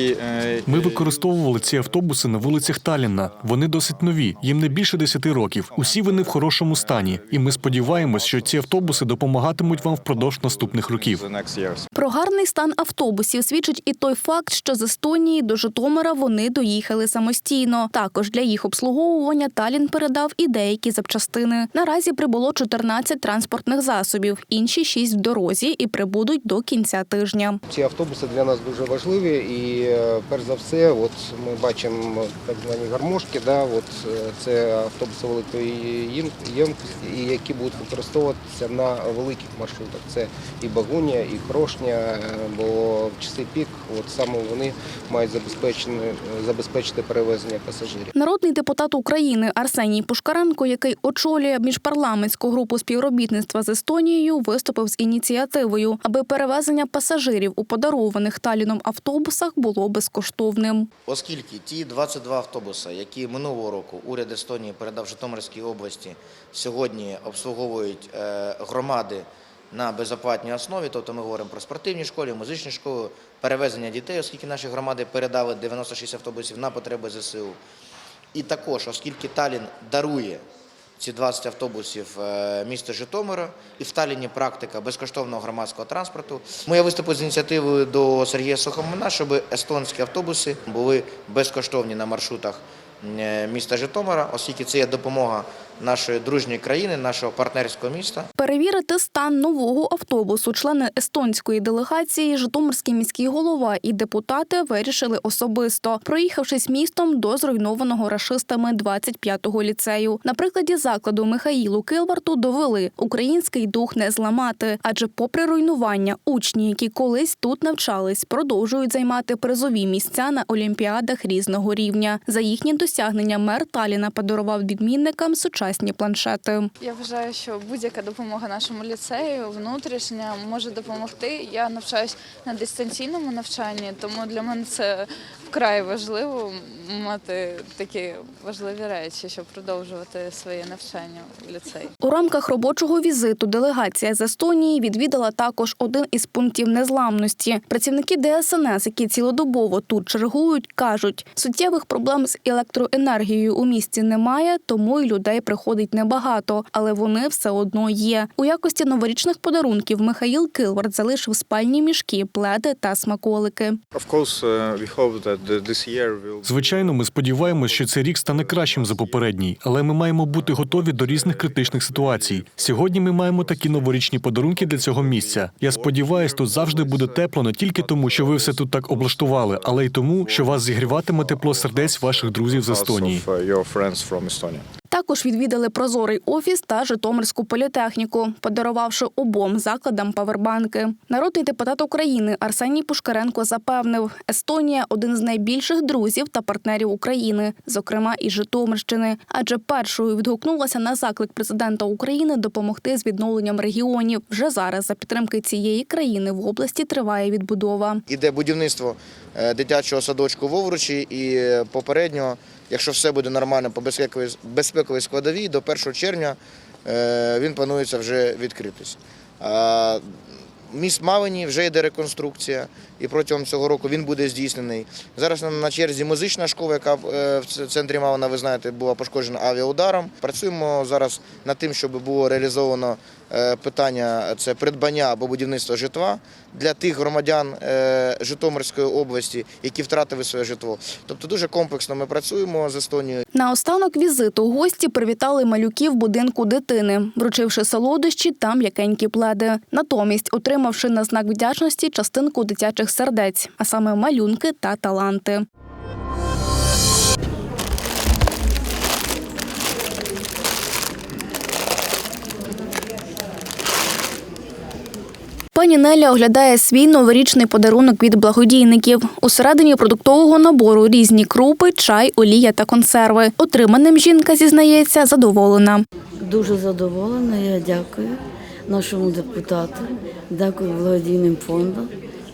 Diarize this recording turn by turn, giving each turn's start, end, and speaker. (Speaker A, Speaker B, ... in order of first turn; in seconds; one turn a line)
Speaker A: 0.6-11.3
Speaker B: 10.7-11.4
Speaker C: 11.9-27.6
Speaker D: 27.7-48.1
Speaker C: 48.1-60.9
Speaker E: 61.1-77.6
Speaker E: 78.3-80.4
Speaker E: 81.0-98.2
Speaker C: 98.4-126.7
Speaker F: 126.8-141.9
Speaker C: 142.0-163.8
Speaker B: 164.0-166.8
Speaker A: 166.4-183.3
Speaker B: 168.4-168.9
Speaker B: 171.1-171.4
Speaker B: 175.8-176.8
Speaker B: 182.7-183.4
Speaker C: 184.9-208.0
Speaker E: 208.1-220.0
Speaker E: 220.7-243.2
Speaker C: 243.3-255.4
Speaker C: 265.5-275.8
Speaker G: 276.2-281.9